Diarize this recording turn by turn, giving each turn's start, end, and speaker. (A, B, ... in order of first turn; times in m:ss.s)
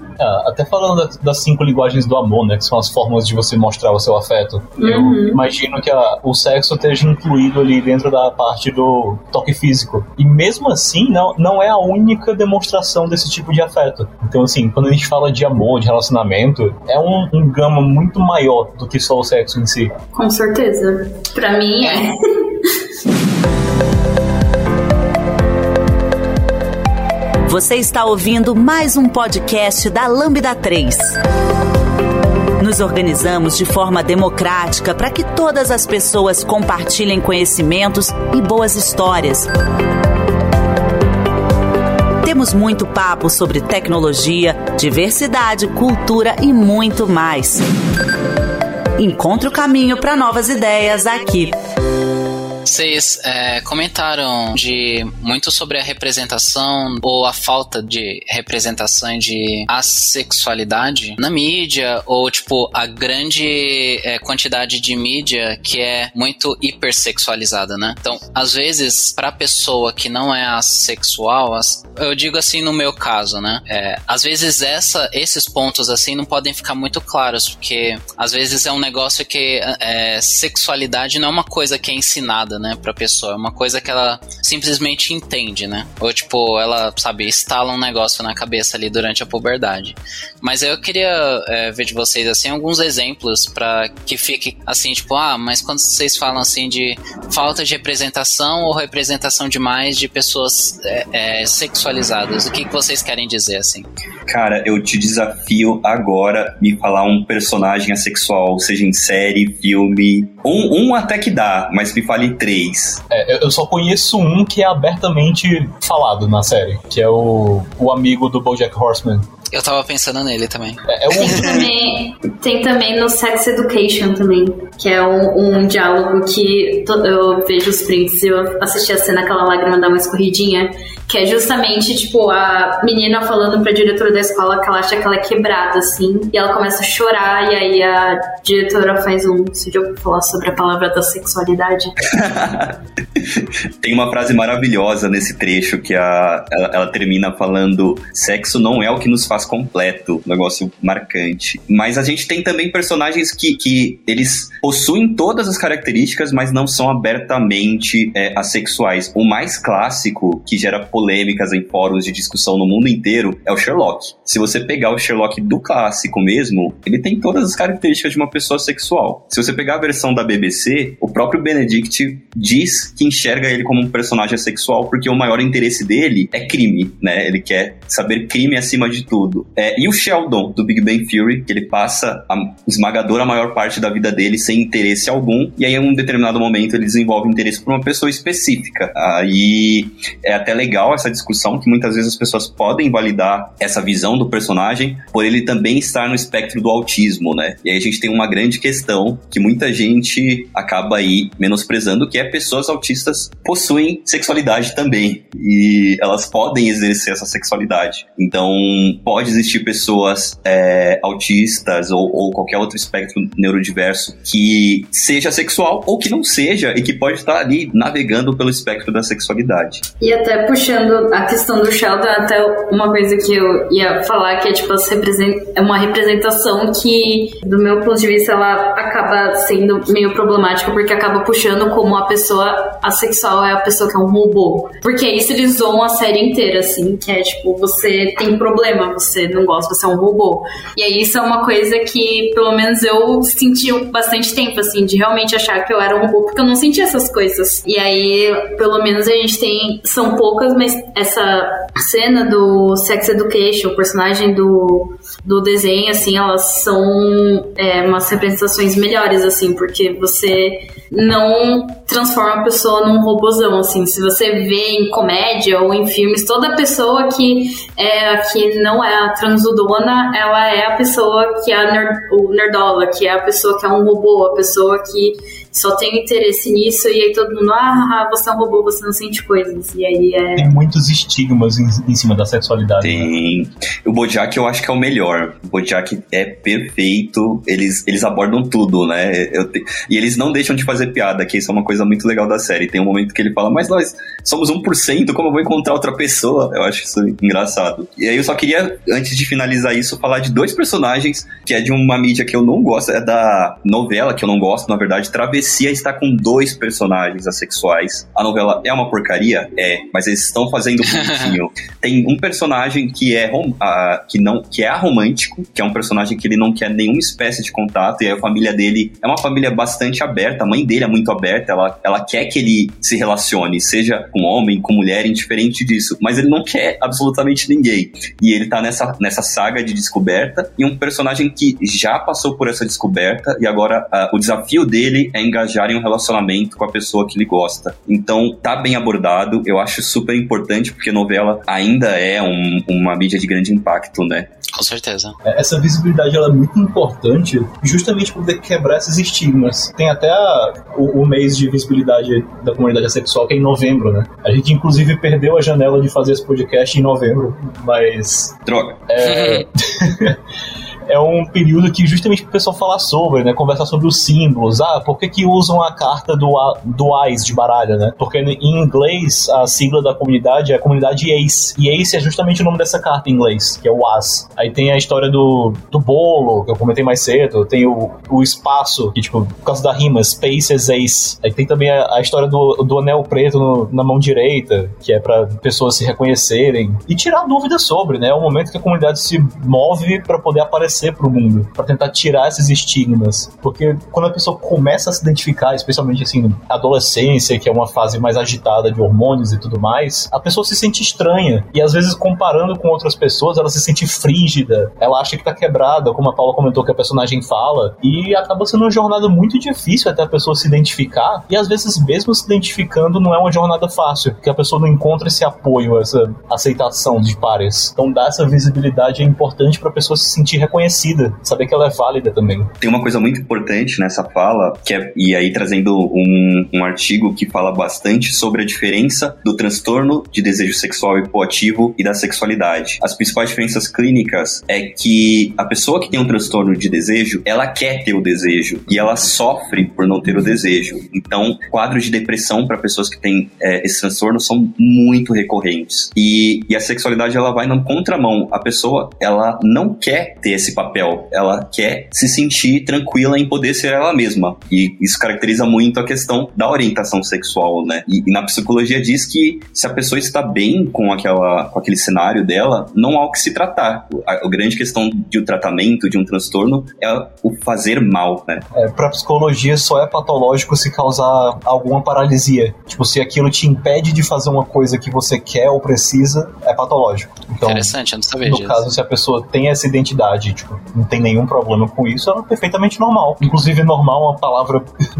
0:00.2-0:19.9 A
0:04.8-0:05.4 B
0:20.1-0:22.6 B
0:27.5-0:31.2 C
0:32.6-0:39.5 C
0:42.2-0:47.6 C
0:49.0-0:51.6 C
0:52.6-1:43.8 D
1:44.3-1:53.0 E
1:53.1-1:59.3 A
1:59.5-2:00.8 D
2:00.8-2:01.7 A
2:01.1-2:22.0 B
2:22.1-3:39.8 E
3:40.0-4:40.5 B
4:40.4-4:43.1 A
4:42.8-5:44.3 E
5:10.9-5:11.4 D
5:44.5-5:45.2 D
5:45.2-5:58.4 A
5:58.5-5:58.8 E
5:58.9-6:00.2 A
5:59.0-5:59.4 D
6:00.9-7:02.5 A
7:02.6-7:48.4 E
7:48.5-8:04.7 A
7:57.4-7:58.6 D